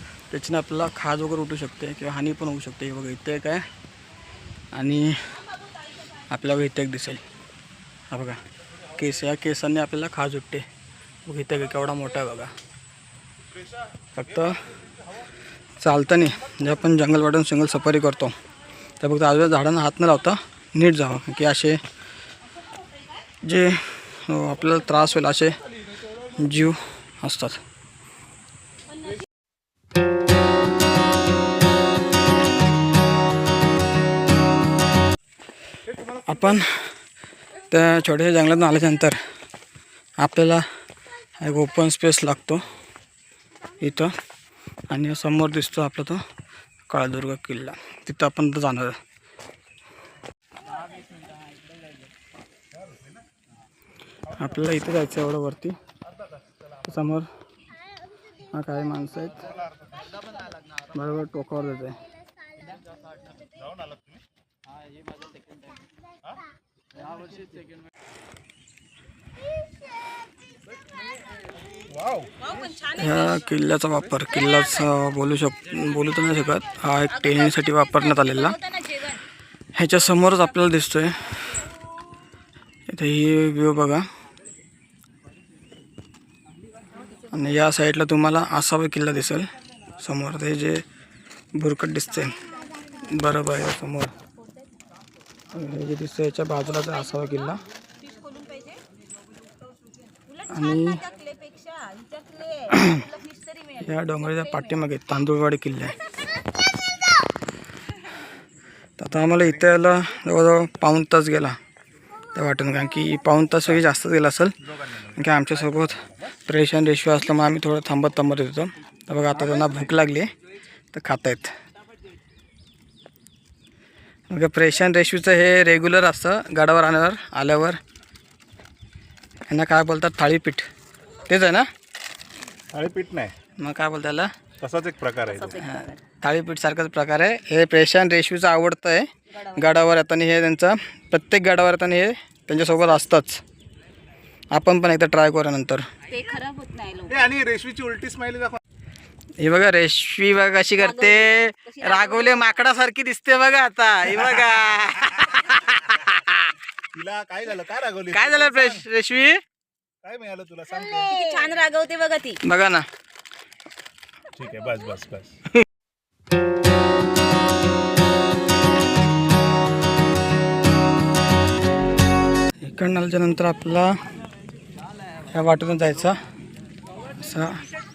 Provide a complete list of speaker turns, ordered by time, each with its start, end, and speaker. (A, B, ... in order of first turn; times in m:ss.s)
0:00.3-0:03.7 A
0:04.7-0:05.4 A
0:06.3-0:07.2 A
0:08.1-0:08.4 A
0:08.9-0:10.7 A
0:11.2-0:12.6 A
0:14.1-0:14.7 A
0:15.8-0:18.4 A
0:19.0-0:21.8 A
0:23.4-0:25.6 A
0:26.2-0:27.6 A
0:36.1-0:36.9 A
0:37.7-0:39.2 A
0:40.2-0:40.7 A
0:41.4-0:42.7 A
0:43.8-0:44.2 A
0:44.9-0:46.2 A
0:46.9-0:49.0 A
0:54.3-0:55.8 A
0:56.8-0:57.3 A
0:58.4-0:59.5 A
1:00.8-1:02.0 A
1:12.0-1:12.3 B
1:12.8-1:19.2 A
1:19.8-1:21.6 A
1:22.9-1:24.1 A
1:27.3-1:30.9 A
1:31.5-1:34.2 A
1:35.5-1:37.6 A
1:38.0-1:38.8 C
1:40.4-1:41.1 A
1:41.0-1:43.7 C
1:42.7-1:43.1 A
1:43.7-1:46.0 A
1:49.0-1:51.6 A
1:52.3-2:00.3 A
2:00.9-2:01.6 A
2:04.3-2:07.8 A
2:09.5-2:10.7 A
2:11.2-2:11.7 A
2:12.7-2:13.3 B
2:13.6-2:14.3 A
2:14.6-2:15.6 B
2:15.6-2:23.4 A
2:24.5-2:25.9 A
2:26.1-2:27.2 C
2:27.1-2:28.6 B
2:29.4-2:36.4 A
2:32.0-2:32.4 C
2:36.9-2:38.8 B
2:38.1-2:39.4 A
2:40.0-2:41.5 B
2:41.2-2:42.4 C
2:42.4-2:42.9 A
2:44.3-2:45.4 B
2:52.6-2:54.0 A
2:55.3-2:56.2 A
2:57.2-2:57.7 A